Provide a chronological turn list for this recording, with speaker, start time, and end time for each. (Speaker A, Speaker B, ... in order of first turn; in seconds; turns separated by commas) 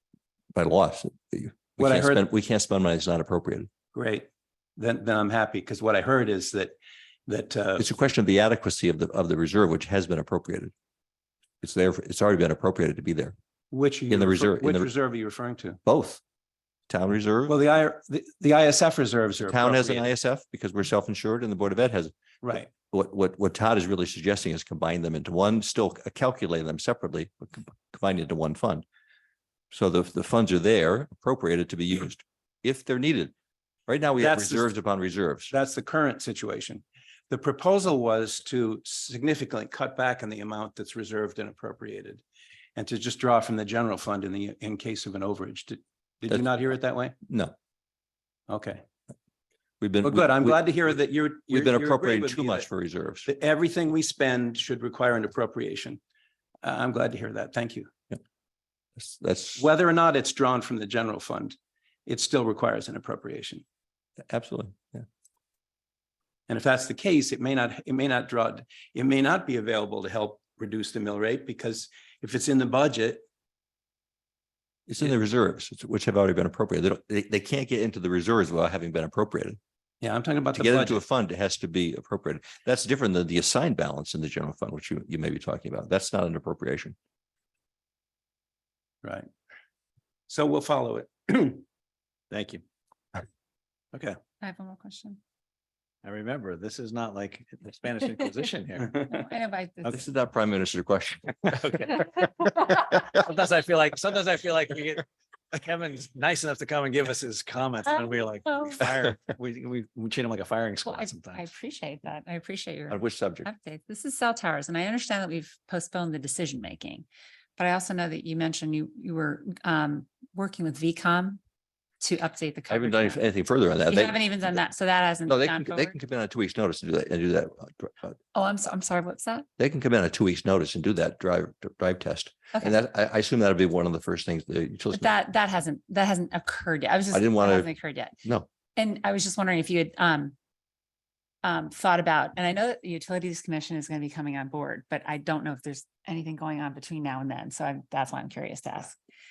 Speaker A: 0.6-3.7, Speaker B: 1.8-2.2, Speaker B: 3.9-7.9, Speaker A: 7.8-10.7, Speaker A: 11.6-13.3, Speaker B: 13.7-15.8, Speaker A: 14.1-14.9, Speaker A: 15.8-16.2, Speaker A: 16.9-17.6, Speaker B: 17.5-20.1, Speaker A: 19.5-22.1, Speaker B: 22.4-22.7, Speaker A: 22.9-28.9, Speaker A: 29.7-33.3, Speaker A: 33.9-35.5, Speaker B: 34.2-34.7, Speaker B: 35.5-42.2, Speaker B: 42.8-47.1, Speaker A: 47.3-47.5, Speaker B: 48.5-48.8, Speaker A: 49.8-50.7, Speaker B: 50.0-52.7, Speaker A: 51.5-53.3, Speaker B: 53.3-56.0, Speaker B: 56.6-57.9, Speaker A: 59.0-59.7, Speaker B: 59.6-63.6, Speaker A: 64.3-65.0, Speaker B: 66.5-73.2, Speaker A: 74.9-79.6, Speaker B: 80.0-81.0, Speaker A: 80.6-87.0, Speaker B: 89.0-89.3, Speaker B: 90.3-91.6, Speaker B: 92.3-92.6, Speaker C: 94.4-95.2, Speaker D: 96.0-99.1, Speaker C: 99.1-100.0, Speaker A: 99.9-101.5, Speaker D: 101.5-111.5, Speaker C: 110.8-117.1, Speaker A: 112.9-113.5, Speaker C: 117.6-121.4, Speaker C: 122.0-123.2, Speaker A: 122.7-124.5, Speaker C: 123.8-126.0, Speaker A: 125.3-128.2, Speaker C: 128.3-129.5, Speaker A: 129.6-135.1, Speaker C: 134.9-138.2, Speaker A: 137.1-137.7, Speaker C: 138.8-140.3, Speaker C: 141.4-149.0